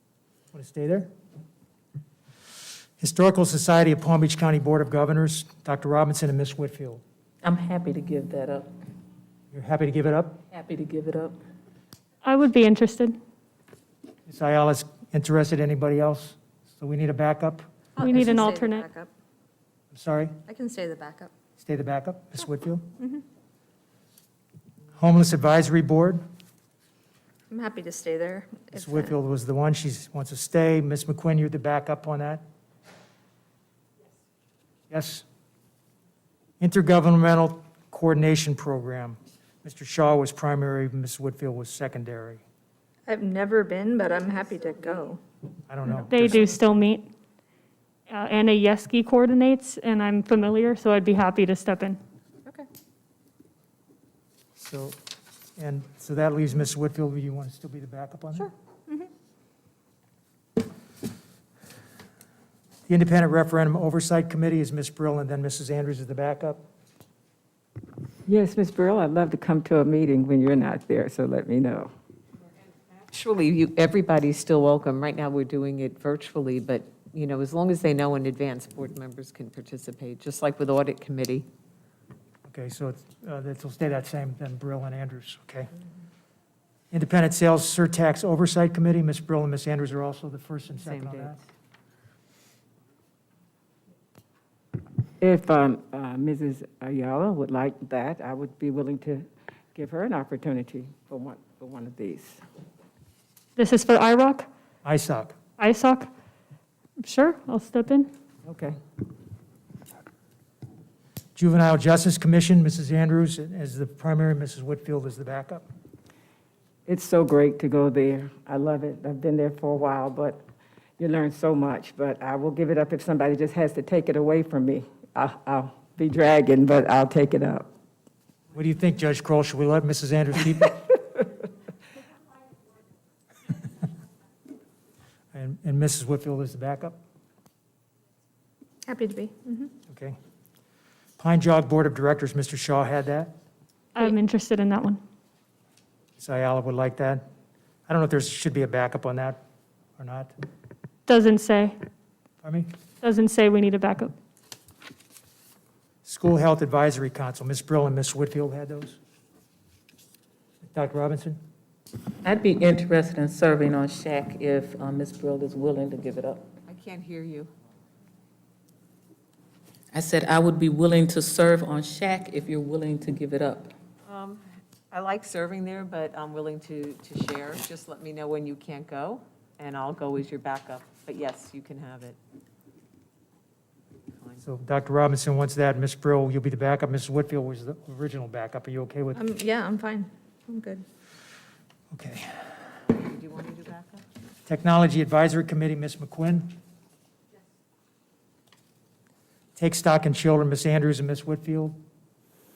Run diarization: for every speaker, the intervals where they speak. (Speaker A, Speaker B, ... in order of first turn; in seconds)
Speaker A: 0.5-1.1, 3.0-7.0, 9.5-10.4, 14.3-18.3, 19.9-20.4, 21.6-22.9, 25.0-26.2, 28.7-32.4, 34.9-35.2, 36.6-42.4, 45.7-46.5, 54.6-55.0, 55.6-58.5, 62.9-66.6, 82.5-85.7, 86.9-91.4, 104.8-105.4, 111.3-115.6, 128.5-130.8, 135.3-137.0, 139.9-140.2, 141.2-143.3, 146.2-147.2, 147.9-149.4, 150.0-150.3, 152.4-152.7, 156.0-159.0, 160.7-161.4, 184.4-189.2, 191.9-192.5, 194.4-196.5, 199.6-201.8
Speaker B: 7.4-8.7, 10.5-11.3, 162.2-166.5, 169.9-173.7
Speaker C: 12.2-13.2, 18.0-18.8, 46.1-47.1, 48.1-52.0, 103.5-104.5, 105.6-106.1, 107.0-108.1, 143.9-145.0, 151.1-151.8, 153.0-154.1
Speaker D: 17.9-19.1, 20.5-21.3, 23.0-23.2, 27.5-29.1, 43.1-45.2, 58.4-59.1, 138.8-139.7, 189.1-190.8
Speaker E: 68.3-71.9, 95.2-102.4, 108.4-108.8, 116.9-120.4, 121.0-127.7
Speaker F: 73.1-81.5, 90.8-91.3, 166.7-167.5, 174.1-182.2, 192.9-194.0